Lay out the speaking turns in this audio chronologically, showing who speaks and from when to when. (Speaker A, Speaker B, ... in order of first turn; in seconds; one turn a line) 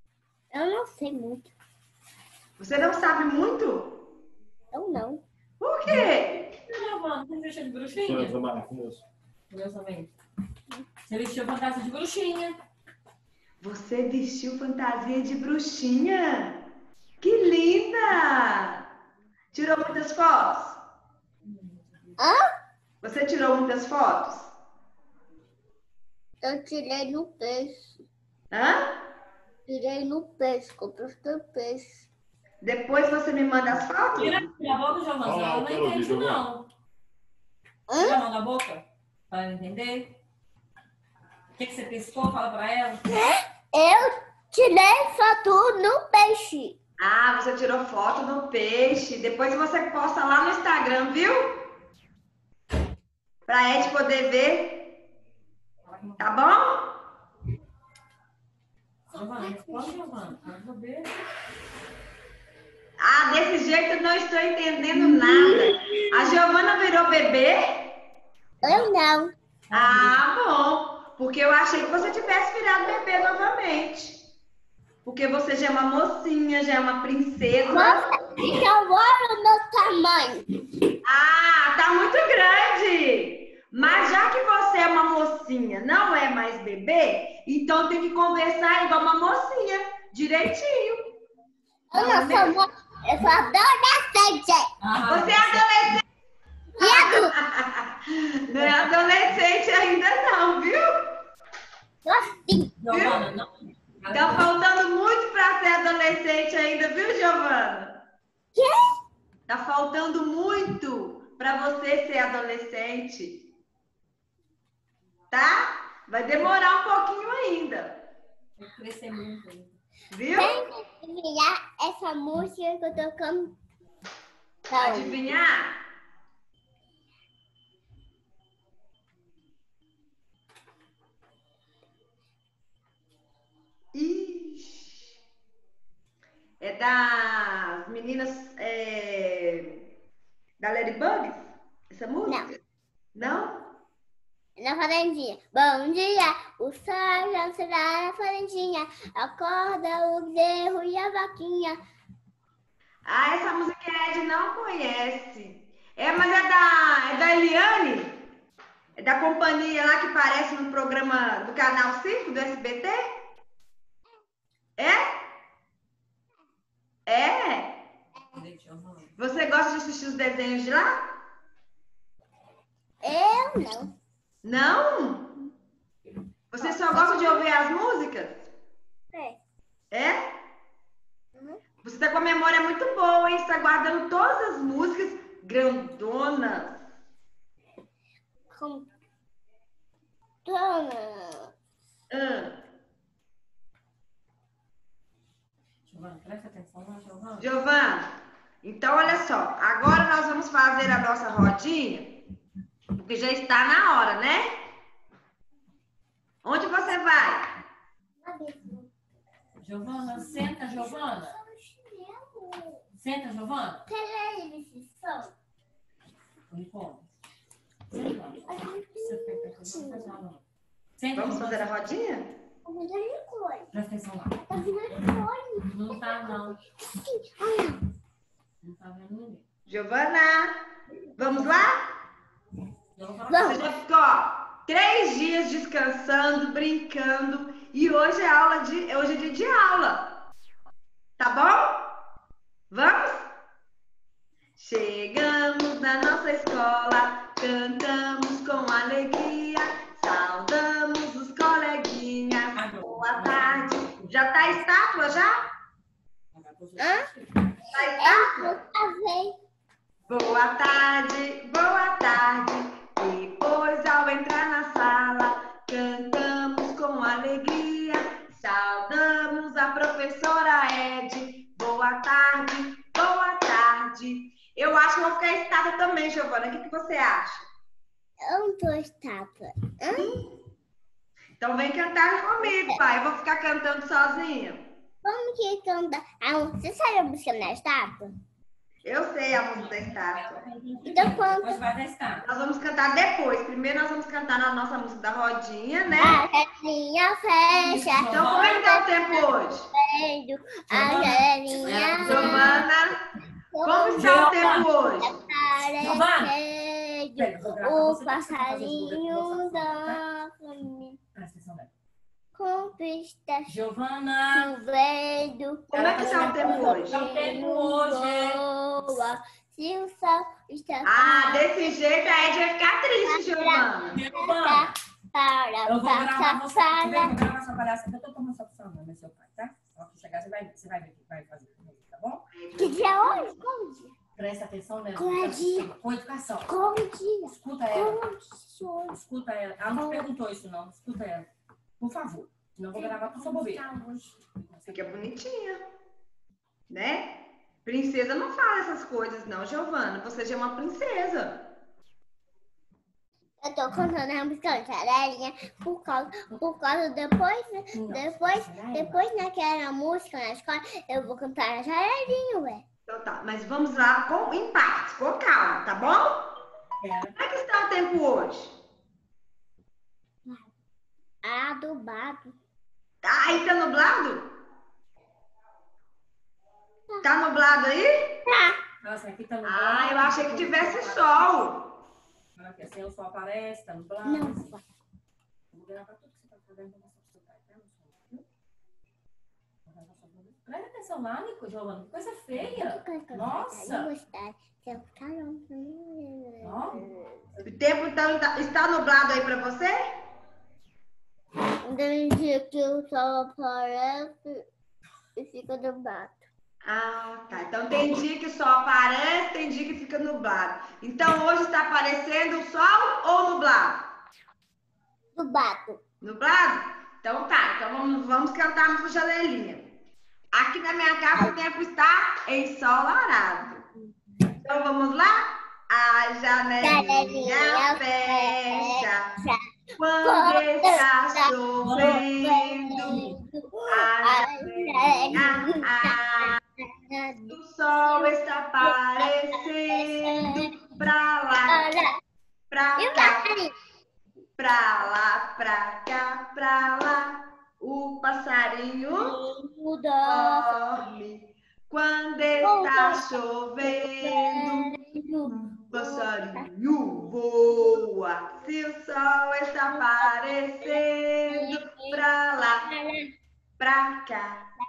Speaker A: 0.5-1.5
Speaker B: 2.6-4.0
Speaker A: 4.7-5.2
Speaker B: 5.6-6.5
Speaker C: 5.8-8.4
Speaker D: 8.1-9.0
Speaker C: 9.5-10.1
Speaker C: 11.1-12.6
Speaker B: 13.6-16.6
Speaker B: 17.2-18.8
Speaker B: 19.5-20.8
Speaker C: 21.4-22.1
Speaker A: 22.2-22.5
Speaker B: 23.0-24.5
Speaker A: 26.4-28.0
Speaker B: 28.5-29.0
Speaker A: 29.7-32.0
Speaker B: 32.6-34.4
Speaker C: 34.1-36.6
Speaker D: 35.2-36.4
Speaker A: 37.9-38.2
Speaker C: 38.0-40.1
Speaker C: 41.6-43.0
Speaker A: 43.1-46.8
Speaker B: 47.0-51.7
Speaker B: 53.5-55.0
Speaker C: 55.8-56.2
Speaker B: 56.2-57.0
Speaker C: 59.1-61.2
Speaker A: 59.1-60.1
Speaker B: 63.0-68.0
Speaker A: 64.9-66.3
Speaker A: 68.6-69.3
Speaker C: 69.7-70.2
Speaker B: 69.7-74.2
Speaker B: 75.0-78.2
Speaker A: 77.7-80.6
Speaker B: 81.0-91.0
Speaker A: 91.9-94.7
Speaker C: 91.9-92.5
Speaker C: 94.8-95.7
Speaker B: 95.1-96.0
Speaker A: 96.8-97.3
Speaker B: 96.8-101.2
Speaker C: 98.5-98.9
Speaker A: 102.0-102.8
Speaker C: 102.8-104.5
Speaker B: 102.9-103.2
Speaker B: 104.1-108.0
Speaker A: 108.5-109.0
Speaker B: 109.5-113.5
Speaker B: 115.3-118.0
Speaker C: 118.6-119.8
Speaker B: 120.1-120.6
Speaker A: 120.4-123.6
Speaker A: 124.7-125.3
Speaker B: 124.8-125.8
Speaker B: 133.9-135.0
Speaker B: 136.6-139.8
Speaker B: 140.6-142.6
Speaker B: 143.1-143.7
Speaker A: 144.6-151.8
Speaker B: 153.1-158.2
Speaker B: 159.0-163.1
Speaker B: 164.8-165.2
Speaker B: 167.1-167.8
Speaker C: 168.3-169.1
Speaker B: 169.2-171.1
Speaker A: 173.0-173.9
Speaker B: 174.4-175.3
Speaker B: 176.5-178.5
Speaker A: 176.6-177.5
Speaker A: 179.1-179.4
Speaker B: 179.9-180.4
Speaker B: 181.8-186.8
Speaker A: 188.5-188.9
Speaker A: 190.4-191.5
Speaker B: 192.1-192.6
Speaker C: 195.9-197.5
Speaker B: 197.4-198.1
Speaker B: 198.6-202.2
Speaker B: 202.9-204.6
Speaker B: 206.4-207.6
Speaker A: 208.2-208.9
Speaker C: 209.6-211.4
Speaker A: 210.1-212.8
Speaker C: 212.9-213.9
Speaker A: 213.9-215.3
Speaker C: 216.5-217.1
Speaker C: 217.9-220.4
Speaker A: 218.4-220.2
Speaker C: 221.0-221.7
Speaker B: 221.1-222.3
Speaker A: 222.6-223.7
Speaker C: 223.7-224.4
Speaker A: 224.4-227.8
Speaker C: 225.6-226.6
Speaker C: 228.6-229.4
Speaker B: 229.7-230.6
Speaker B: 231.2-231.8
Speaker C: 232.9-233.6
Speaker A: 233.3-233.7
Speaker B: 233.4-240.2
Speaker B: 241.2-241.9
Speaker B: 242.7-243.3
Speaker B: 244.6-255.5
Speaker C: 252.5-254.2
Speaker C: 256.3-257.3
Speaker A: 256.8-257.1
Speaker B: 257.7-258.6
Speaker A: 257.7-259.4
Speaker B: 260.1-277.4
Speaker A: 278.2-280.3
Speaker B: 281.4-284.6
Speaker A: 282.4-282.8
Speaker A: 285.0-288.1
Speaker B: 288.8-290.5
Speaker C: 289.5-292.2
Speaker A: 290.8-291.6
Speaker B: 292.2-296.2
Speaker A: 296.0-302.6
Speaker C: 297.5-298.5
Speaker B: 298.1-299.7
Speaker C: 300.7-302.6
Speaker B: 301.9-303.1
Speaker A: 303.5-311.0
Speaker B: 303.6-305.1
Speaker C: 303.9-304.7
Speaker C: 305.8-306.3
Speaker C: 307.1-310.0
Speaker C: 311.1-311.7
Speaker A: 312.3-313.6
Speaker C: 313.4-314.5
Speaker A: 314.3-322.3
Speaker B: 315.7-317.0
Speaker C: 315.7-318.4
Speaker B: 320.8-324.0
Speaker A: 323.1-327.1
Speaker C: 323.9-324.8
Speaker C: 325.6-332.2
Speaker B: 332.3-333.1
Speaker A: 332.6-333.9
Speaker C: 334.1-336.5
Speaker A: 334.9-335.7
Speaker A: 336.4-339.0
Speaker C: 337.3-338.0
Speaker C: 338.9-345.1
Speaker A: 339.7-340.1
Speaker A: 342.7-343.7
Speaker B: 344.7-345.6
Speaker B: 346.7-351.5
Speaker A: 353.4-362.6
Speaker C: 357.7-359.0
Speaker B: 362.9-366.3
Speaker C: 366.8-367.1
Speaker B: 367.1-368.6
Speaker A: 371.2-372.3
Speaker B: 373.0-374.3
Speaker B: 377.0-378.1
Speaker A: 378.2-378.6
Speaker C: 378.8-381.2
Speaker B: 379.4-381.7
Speaker C: 382.3-384.5
Speaker A: 384.0-384.6
Speaker C: 385.5-388.2
Speaker C: 389.6-393.9
Speaker A: 392.4-397.2
Speaker C: 396.4-397.4
Speaker B: 397.4-399.8
Speaker A: 401.6-404.4
Speaker A: 405.1-406.2
Speaker B: 406.6-413.9
Speaker A: 415.1-415.8
Speaker B: 416.0-419.7
Speaker B: 420.3-423.6
Speaker B: 424.4-429.2
Speaker A: 426.6-429.4
Speaker B: 429.8-433.1
Speaker A: 430.0-440.5
Speaker C: 431.6-432.0
Speaker C: 432.8-433.2
Speaker B: 433.7-436.4
Speaker B: 437.3-441.6
Speaker A: 441.5-442.0
Speaker B: 442.5-443.3
Speaker A: 442.8-443.5
Speaker B: 444.4-449.1
Speaker A: 449.0-450.8
Speaker B: 450.0-454.8
Speaker A: 452.4-456.4
Speaker B: 455.4-462.7
Speaker A: 457.5-457.9
Speaker A: 459.7-462.0
Speaker A: 462.6-463.1
Speaker B: 463.6-464.4